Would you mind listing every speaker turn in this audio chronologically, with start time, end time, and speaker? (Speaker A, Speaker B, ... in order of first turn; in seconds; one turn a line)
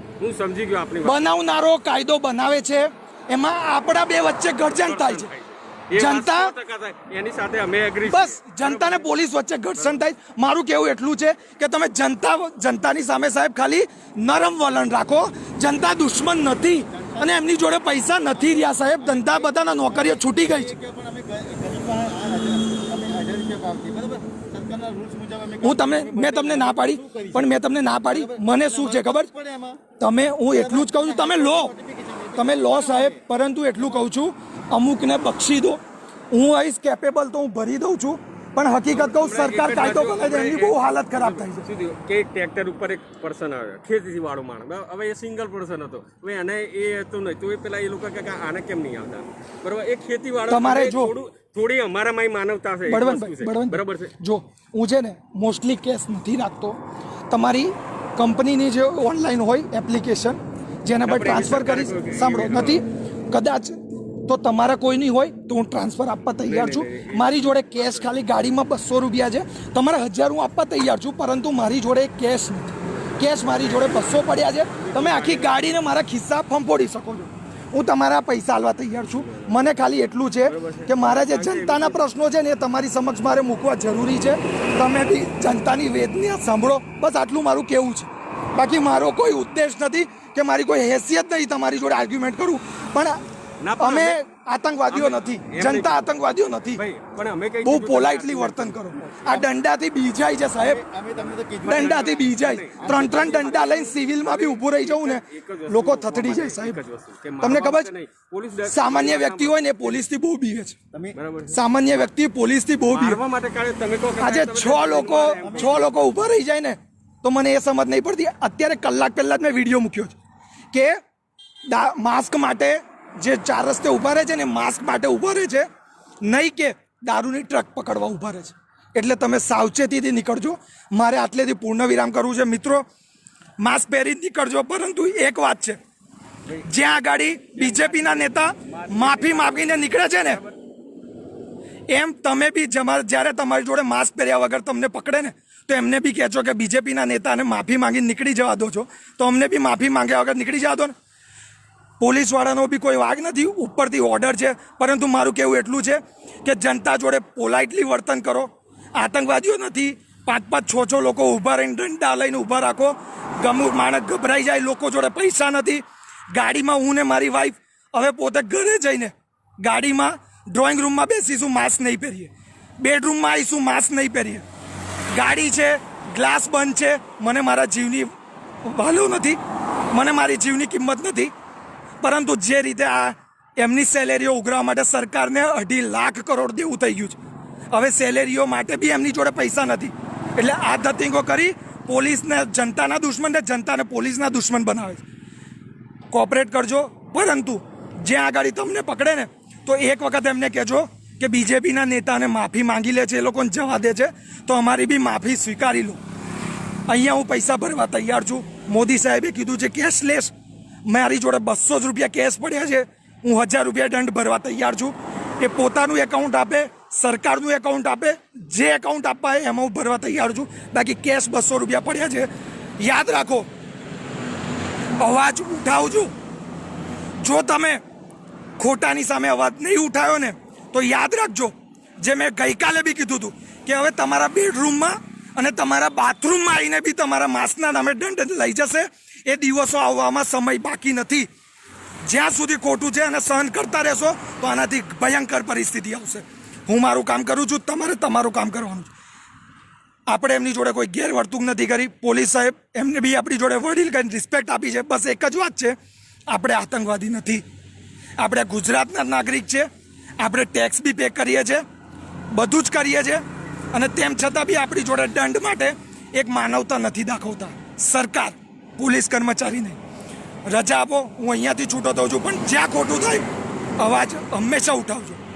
Speaker A: 0.2-1.2
Speaker B: 1.0-5.3
Speaker A: 4.7-9.2
Speaker B: 6.0-6.5
Speaker B: 8.1-20.7
Speaker A: 9.7-10.0
Speaker C: 16.9-17.4
Speaker C: 18.3-29.8
Speaker B: 25.6-29.3
Speaker B: 30.0-31.7
Speaker C: 30.5-33.2
Speaker B: 32.4-35.8
Speaker B: 36.3-41.6
Speaker A: 38.9-54.1
Speaker B: 50.5-51.2
Speaker B: 52.9-93.2
Speaker A: 61.0-62.9
Speaker A: 66.4-68.1
Speaker A: 73.6-73.9
Speaker A: 74.7-75.8
Speaker A: 79.1-79.5
Speaker A: 80.4-82.0
Speaker A: 93.6-94.2
Speaker B: 93.8-96.8
Speaker A: 94.9-96.0
Speaker A: 96.7-99.5
Speaker B: 97.6-100.8
Speaker C: 100.6-102.2
Speaker B: 101.7-106.8
Speaker A: 101.7-110.0
Speaker C: 102.8-103.7
Speaker B: 107.4-107.9
Speaker B: 108.7-110.8
Speaker C: 110.9-111.2
Speaker A: 111.2-111.6
Speaker B: 111.5-113.2
Speaker A: 112.9-115.9
Speaker B: 114.2-120.2
Speaker C: 115.4-115.9
Speaker B: 120.7-121.0
Speaker B: 121.7-125.7
Speaker B: 126.2-132.8
Speaker B: 133.6-135.8
Speaker A: 136.5-140.5
Speaker B: 136.6-140.4
Speaker B: 141.9-150.9
Speaker B: 152.0-174.4
Speaker B: 175.1-178.1
Speaker B: 178.6-179.4
Speaker B: 179.9-181.3
Speaker B: 182.0-187.2
Speaker B: 187.7-195.0
Speaker B: 196.1-206.0
Speaker B: 206.9-210.3
Speaker B: 210.9-223.5
Speaker B: 225.0-226.1
Speaker B: 227.2-227.8
Speaker B: 228.6-241.3
Speaker B: 242.0-248.9
Speaker B: 250.1-255.8
Speaker B: 256.3-257.4
Speaker B: 258.2-261.6
Speaker B: 262.3-269.8
Speaker B: 270.5-273.3
Speaker B: 273.8-275.2